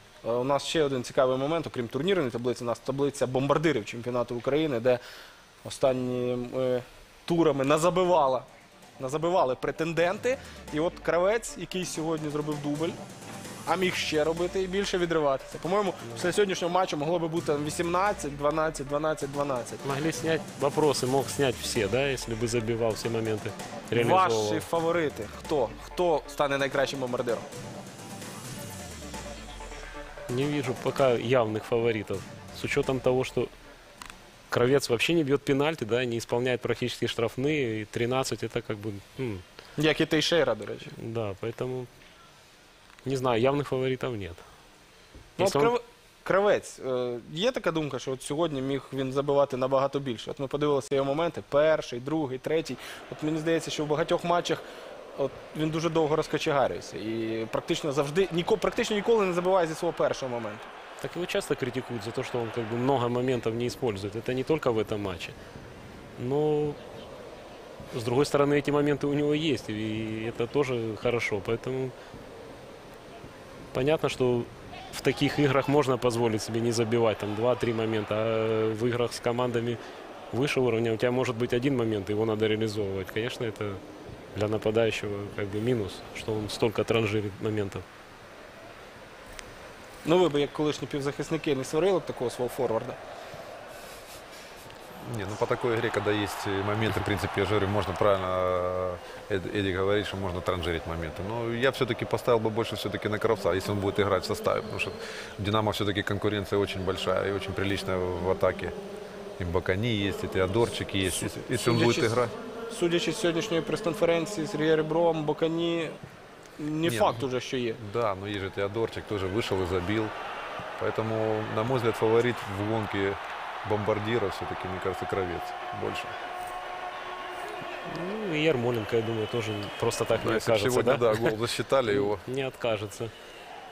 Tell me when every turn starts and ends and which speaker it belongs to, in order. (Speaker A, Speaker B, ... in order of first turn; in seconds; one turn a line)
Speaker A: 0.2-5.0
Speaker A: 5.6-8.5
Speaker A: 9.0-13.0
Speaker A: 13.7-19.8
Speaker B: 19.8-24.6
Speaker A: 23.9-27.5
Speaker B: 30.3-33.5
Speaker B: 34.5-39.4
Speaker A: 39.8-40.9
Speaker B: 41.0-41.9
Speaker B: 43.0-44.4
Speaker B: 45.4-45.7
Speaker A: 45.4-54.6
Speaker A: 55.1-60.7
Speaker B: 61.0-65.3
Speaker B: 66.2-66.8
Speaker B: 67.9-71.9
Speaker B: 73.7-79.8
Speaker B: 80.3-83.8
Speaker B: 84.3-87.8
Speaker A: 90.0-93.0
Speaker C: 95.0-108.7
Speaker C: 109.4-112.3
Speaker A: 111.0-116.0
Speaker A: 116.6-117.8
Speaker C: 116.8-117.2
Speaker C: 117.8-120.1
Speaker C: 120.8-126.1
Speaker B: 127.9-133.1
Speaker C: 130.2-132.2